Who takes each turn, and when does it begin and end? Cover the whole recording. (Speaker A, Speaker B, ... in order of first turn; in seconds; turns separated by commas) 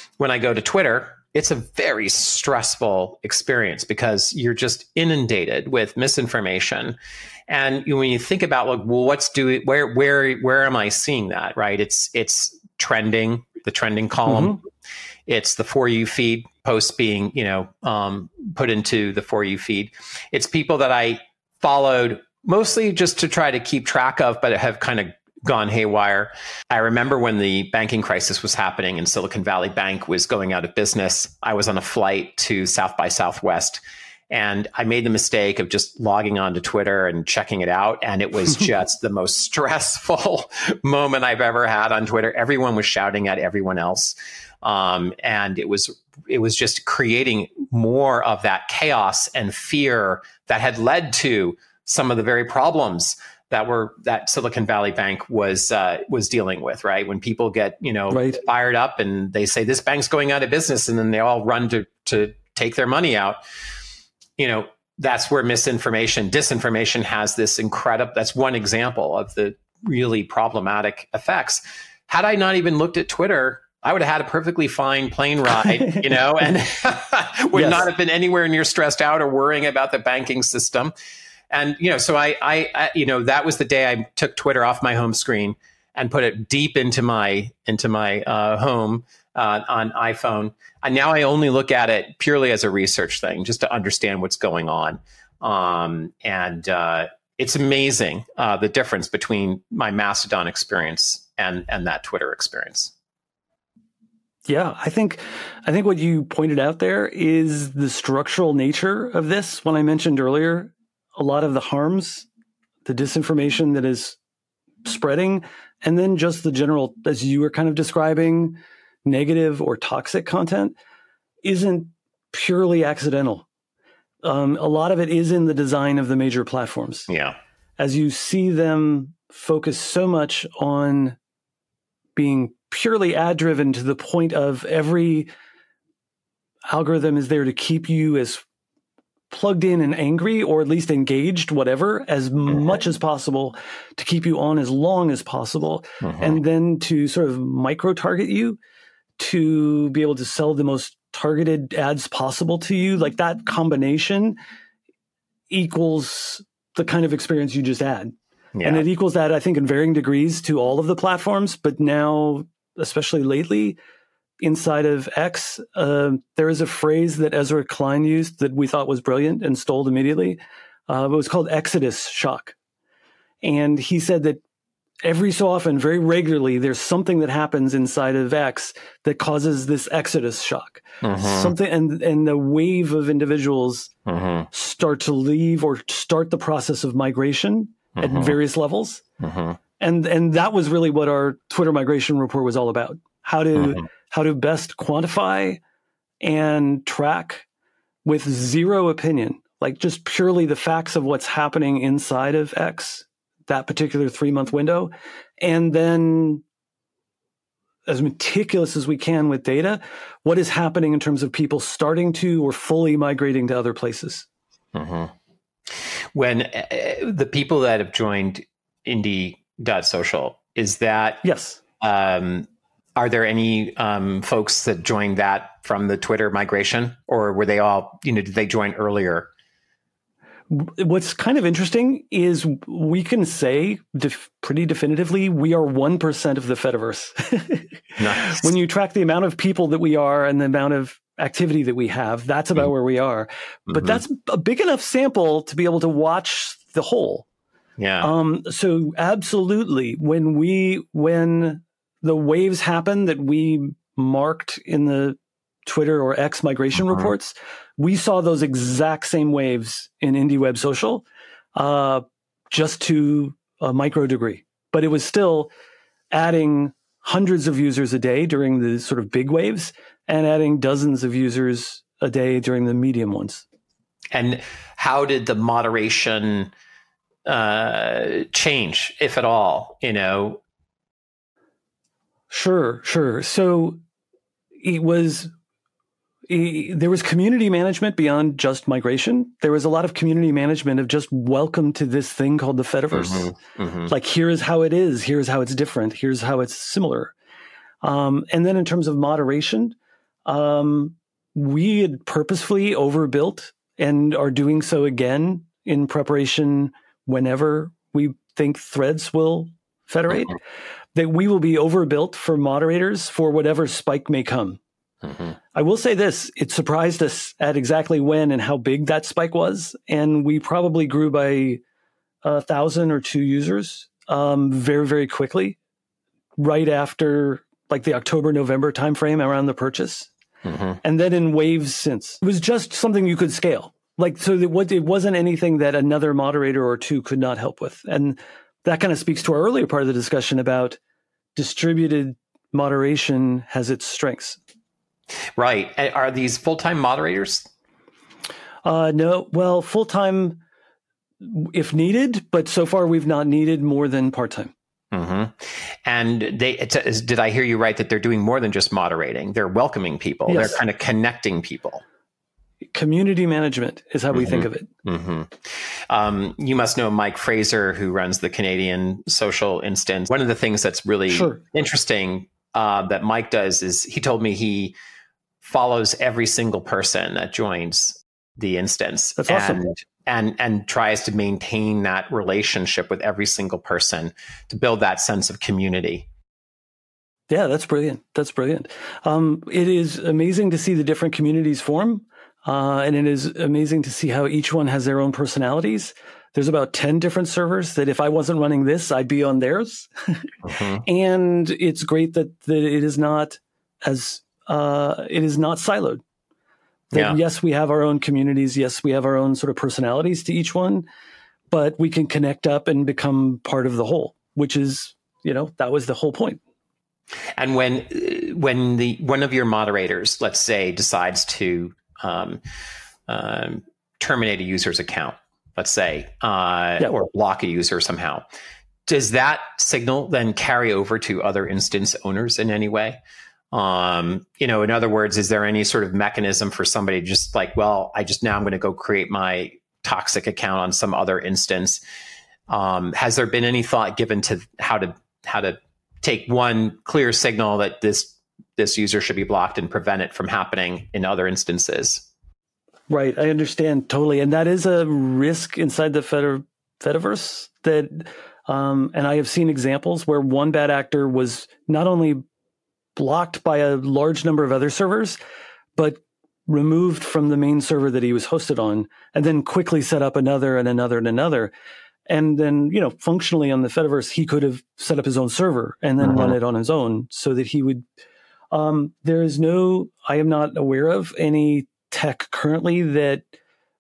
Speaker A: 0.2-7.0, Speaker A: 7.5-14.6, Speaker B: 14.3-14.6, Speaker A: 15.3-63.4, Speaker B: 58.1-58.4, Speaker A: 64.4-80.9, Speaker B: 75.6-76.0, Speaker B: 77.5-77.9, Speaker A: 81.5-102.9, Speaker B: 104.5-112.3, Speaker B: 112.8-114.2, Speaker B: 114.8-120.8, Speaker B: 121.4-123.5, Speaker B: 124.2-127.1, Speaker A: 127.1-127.4, Speaker B: 127.8-131.2, Speaker B: 132.2-135.3, Speaker B: 136.7-138.4, Speaker B: 139.3-148.6, Speaker A: 146.0-146.4, Speaker B: 149.2-154.4, Speaker B: 155.5-163.8, Speaker A: 158.6-158.8, Speaker B: 164.4-172.6, Speaker B: 173.4-174.4, Speaker B: 175.0-183.9, Speaker A: 181.0-181.5, Speaker A: 184.1-184.5, Speaker B: 184.5-189.0, Speaker A: 188.0-188.4, Speaker A: 189.2-189.6, Speaker B: 189.8-195.6, Speaker A: 193.6-193.8, Speaker B: 196.2-197.5, Speaker B: 198.1-206.4, Speaker B: 207.9-214.3, Speaker A: 214.7-215.1, Speaker A: 216.2-221.2, Speaker B: 221.2-221.6, Speaker A: 221.8-229.3, Speaker B: 230.5-247.3, Speaker A: 238.0-238.5, Speaker A: 243.7-244.0, Speaker A: 247.8-248.1, Speaker B: 248.0-265.5, Speaker B: 266.1-273.4, Speaker A: 274.1-276.5, Speaker A: 277.3-280.4, Speaker B: 282.3-283.8, Speaker B: 284.6-285.3, Speaker B: 286.3-293.3, Speaker A: 292.9-293.9, Speaker B: 293.9-297.1, Speaker B: 297.8-310.4, Speaker B: 310.9-314.6, Speaker A: 315.1-315.3, Speaker B: 315.5-321.6, Speaker B: 322.2-325.6, Speaker B: 326.4-330.1, Speaker A: 330.4-330.8, Speaker B: 330.8-340.8, Speaker B: 341.4-344.4, Speaker A: 345.4-347.5, Speaker B: 348.6-350.4, Speaker B: 351.2-354.5, Speaker A: 354.9-361.8, Speaker B: 360.3-360.6, Speaker B: 362.7-364.7, Speaker A: 364.1-374.8, Speaker B: 371.1-371.4, Speaker A: 375.4-386.1, Speaker B: 379.2-379.6, Speaker B: 387.3-406.0, Speaker A: 400.4-400.8, Speaker B: 406.9-410.9, Speaker A: 406.9-407.2, Speaker B: 411.5-416.4, Speaker A: 417.4-422.4, Speaker A: 423.1-428.2, Speaker A: 428.9-433.0, Speaker A: 433.5-441.8, Speaker A: 442.5-452.1, Speaker B: 452.9-462.2, Speaker B: 463.0-465.2, Speaker B: 465.8-471.5, Speaker B: 472.1-477.9, Speaker A: 476.0-476.4, Speaker B: 478.5-483.3